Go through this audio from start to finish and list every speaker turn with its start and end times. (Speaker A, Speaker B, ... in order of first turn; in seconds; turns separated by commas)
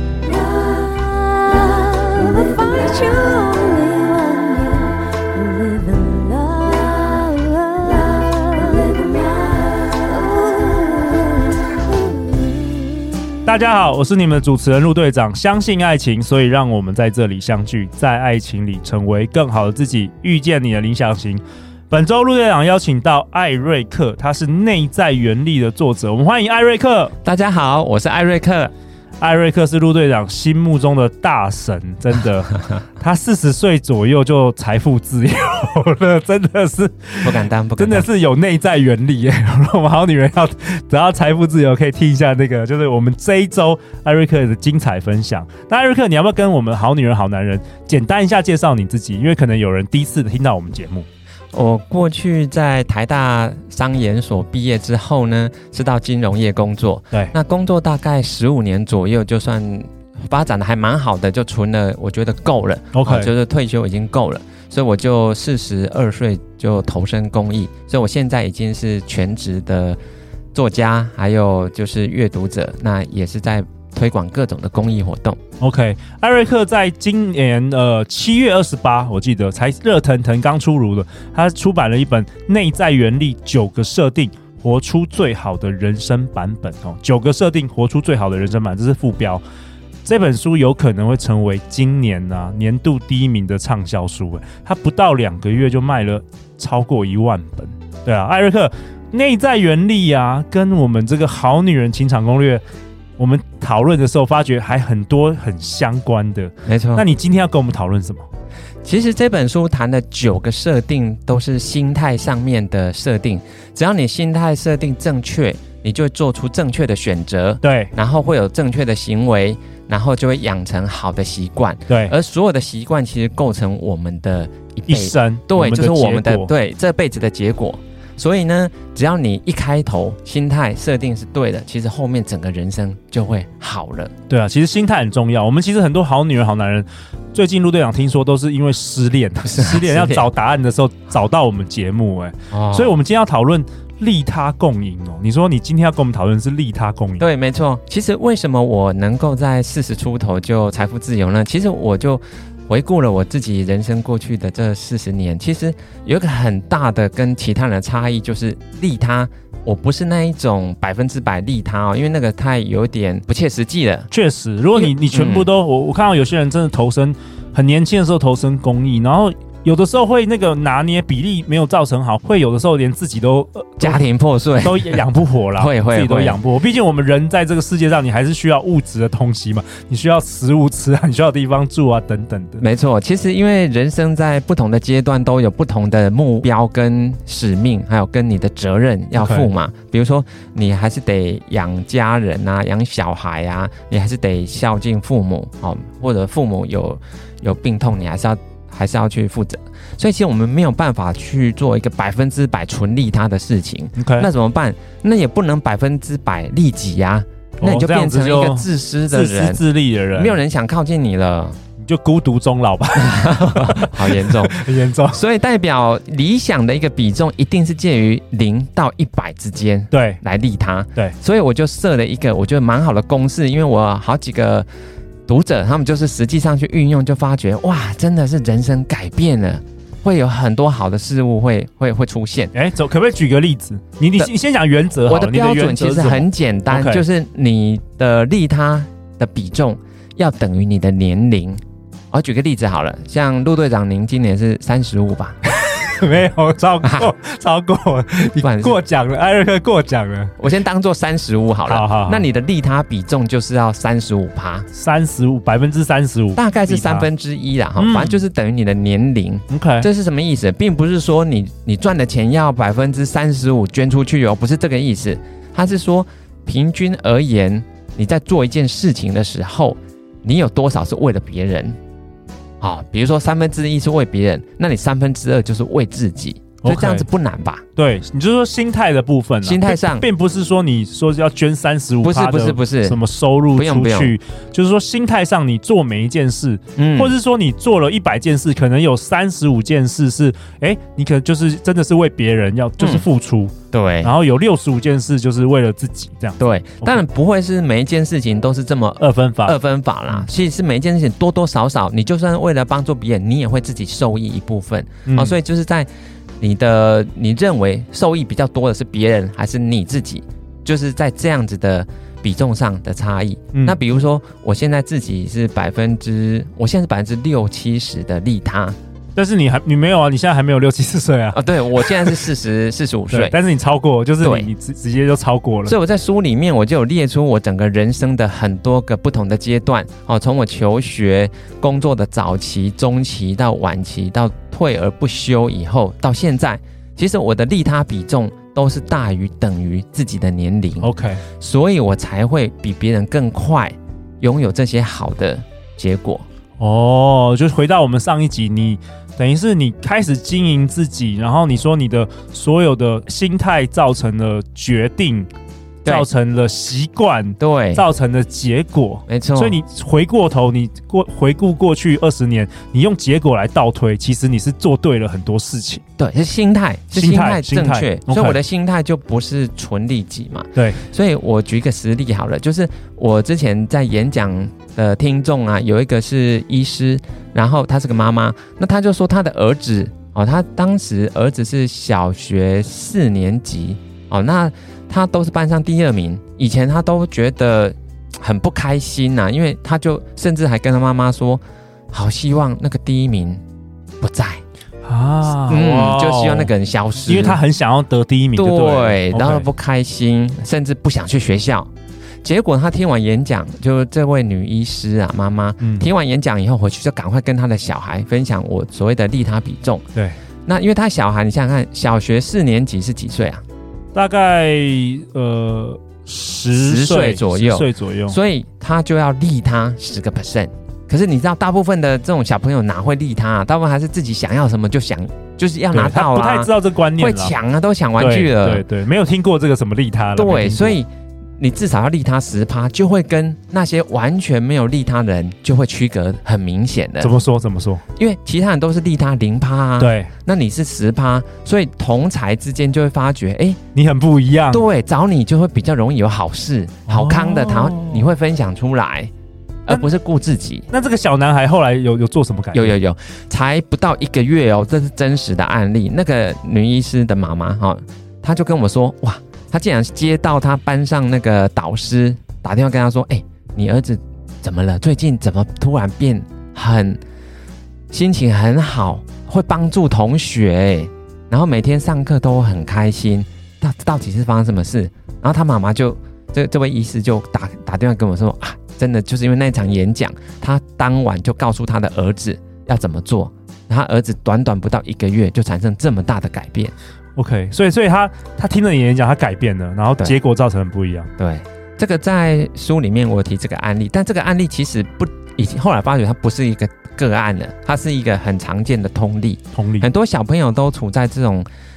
Speaker A: 0.3-13.3, Speaker B: 13.4-27.1, Speaker C: 27.2-28.7, Speaker B: 29.2-51.1, Speaker C: 37.2-38.1, Speaker C: 51.5-70.0, Speaker B: 62.9-63.3, Speaker C: 70.5-75.4, Speaker B: 75.6-89.4, Speaker B: 90.0-102.6, Speaker B: 103.2-108.2, Speaker C: 106.7-107.0, Speaker C: 108.8-134.1, Speaker B: 117.6-117.9, Speaker B: 121.9-122.1, Speaker B: 124.9-126.5, Speaker B: 134.3-147.2, Speaker C: 139.4-140.3, Speaker C: 142.5-142.9, Speaker C: 147.2-164.1, Speaker B: 164.1-174.0, Speaker C: 164.8-165.5, Speaker C: 173.8-175.0, Speaker B: 174.6-182.6, Speaker C: 175.5-176.4, Speaker C: 182.6-209.6, Speaker B: 189.2-189.5, Speaker B: 203.9-204.3, Speaker B: 207.6-210.4, Speaker C: 210.1-211.6, Speaker B: 211.8-215.2, Speaker C: 213.0-214.5, Speaker C: 215.1-224.7, Speaker B: 219.9-220.2, Speaker C: 225.3-232.5, Speaker B: 232.5-237.0, Speaker C: 235.1-241.6, Speaker C: 242.1-245.4, Speaker B: 245.5-250.5, Speaker C: 246.8-247.1, Speaker C: 248.4-248.8, Speaker C: 250.4-254.7, Speaker B: 251.7-252.2, Speaker B: 254.7-257.1, Speaker C: 256.4-271.8, Speaker B: 257.8-258.2, Speaker B: 259.5-259.9, Speaker C: 272.6-277.6, Speaker B: 276.6-277.0, Speaker B: 277.8-297.0, Speaker C: 279.4-280.1, Speaker C: 282.0-283.0, Speaker C: 283.5-284.1, Speaker C: 286.8-287.1, Speaker C: 292.8-293.1, Speaker C: 293.7-294.1, Speaker C: 296.4-305.9, Speaker B: 299.0-299.6, Speaker B: 305.1-305.4, Speaker C: 306.4-318.8, Speaker B: 313.5-313.8, Speaker B: 319.1-322.2, Speaker C: 321.3-323.3, Speaker B: 323.1-325.8, Speaker C: 324.2-324.5, Speaker C: 325.6-346.2, Speaker B: 340.8-341.2, Speaker B: 346.6-355.3, Speaker B: 355.9-365.8, Speaker C: 357.4-357.8, Speaker C: 359.1-359.6, Speaker C: 366.0-393.4, Speaker B: 366.9-368.4, Speaker B: 370.5-370.8, Speaker C: 394.0-394.4, Speaker B: 394.8-396.5, Speaker C: 395.4-397.4, Speaker B: 397.0-399.4, Speaker C: 398.4-401.7, Speaker C: 402.2-409.8, Speaker B: 405.6-405.9, Speaker C: 410.4-413.4, Speaker B: 413.9-418.2, Speaker C: 416.5-428.6, Speaker B: 425.7-427.4, Speaker B: 428.0-430.8, Speaker C: 430.1-437.1, Speaker B: 437.0-437.8, Speaker C: 437.9-443.6, Speaker B: 439.8-440.1, Speaker B: 443.7-444.6, Speaker C: 444.5-449.1, Speaker B: 446.9-448.1, Speaker C: 449.7-450.7, Speaker B: 450.7-452.7, Speaker C: 452.5-467.0, Speaker C: 467.9-486.7, Speaker B: 487.1-491.1, Speaker C: 491.2-501.5, Speaker B: 499.5-499.9